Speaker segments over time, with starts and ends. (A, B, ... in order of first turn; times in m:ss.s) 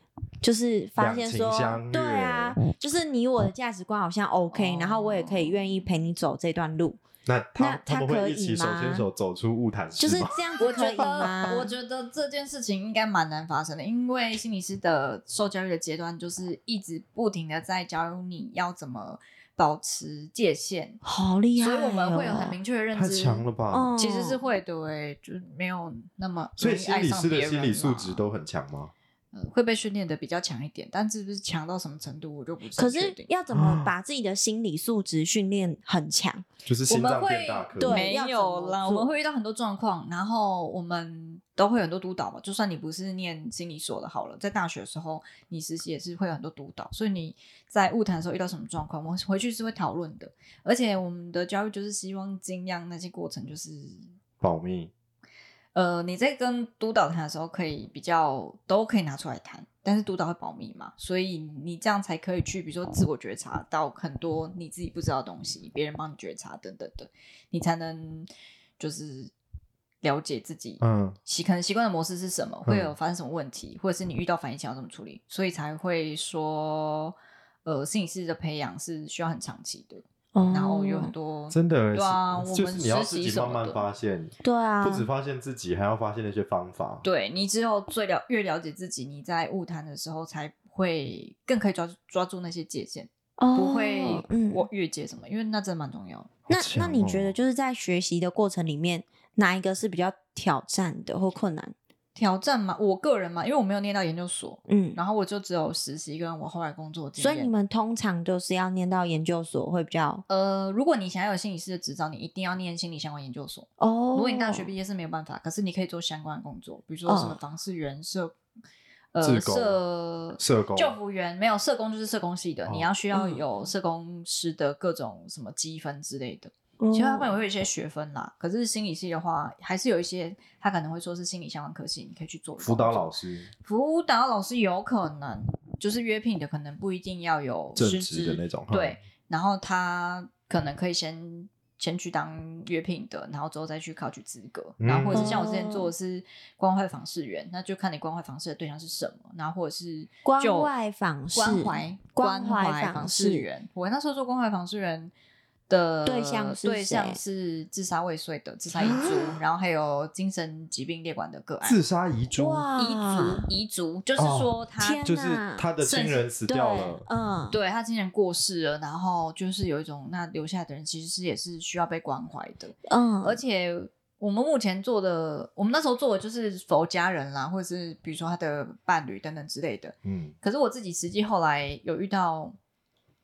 0:00.4-0:07.0 A
0:01.0-0:02.6 B
0:04.5-0:05.8 C
0:07.3-0:11.5 B
0:07.6-0:09.1 A
0:10.0-0:11.7 A
0:10.6-0:21.0 C
0:21.0-0:22.6 A
0:21.6-0:28.2 C
0:22.9-0:23.9 B
0:23.7-0:24.4 A
0:26.6-0:28.9 B
0:29.3-0:33.3 C
0:32.8-0:36.5 A
0:33.5-0:33.9 B
0:36.7-0:38.1 B
0:36.9-0:54.1 C
0:37.8-0:39.2 A
0:54.4-0:54.9 B
0:55.7-1:09.3 C
1:10.0-1:23.8 C
1:10.8-1:11.2 B
1:12.7-1:12.9 B
1:20.3-1:21.1 A
1:21.5-1:27.0 B
1:24.4-1:25.1 A
1:27.0-1:36.3 C
1:33.4-1:34.7 A
1:36.5-1:37.4 B
1:36.5-1:41.7 A
1:42.2-1:47.5 C
1:44.7-1:45.0 A
1:47.2-1:50.2 A
1:50.3-1:58.4 C
1:53.8-1:54.7 A
1:57.1-1:57.4 A
1:59.1-2:13.1 C
1:59.2-1:59.8 B
2:00.4-2:01.0 B
2:02.6-2:02.9 B
2:03.1-2:03.4 A
2:06.8-2:07.4 A
2:12.6-2:13.5 B
2:13.6-2:30.7 C
2:17.8-2:19.0 B
2:24.8-2:25.4 B
2:25.1-2:25.9 A
2:30.2-2:33.5 A
2:31.3-2:35.1 C
2:35.7-2:41.8 C
2:36.0-2:37.2 A
2:38.7-2:39.4 A
2:41.6-2:42.7 B
2:42.3-2:43.5 A
2:42.8-2:45.1 C
2:44.2-2:47.1 B
2:44.8-2:45.6 A
2:45.8-2:46.3 C
2:46.5-2:47.6 A
2:47.5-3:02.6 C
2:52.9-2:53.4 A
3:00.0-3:00.3 B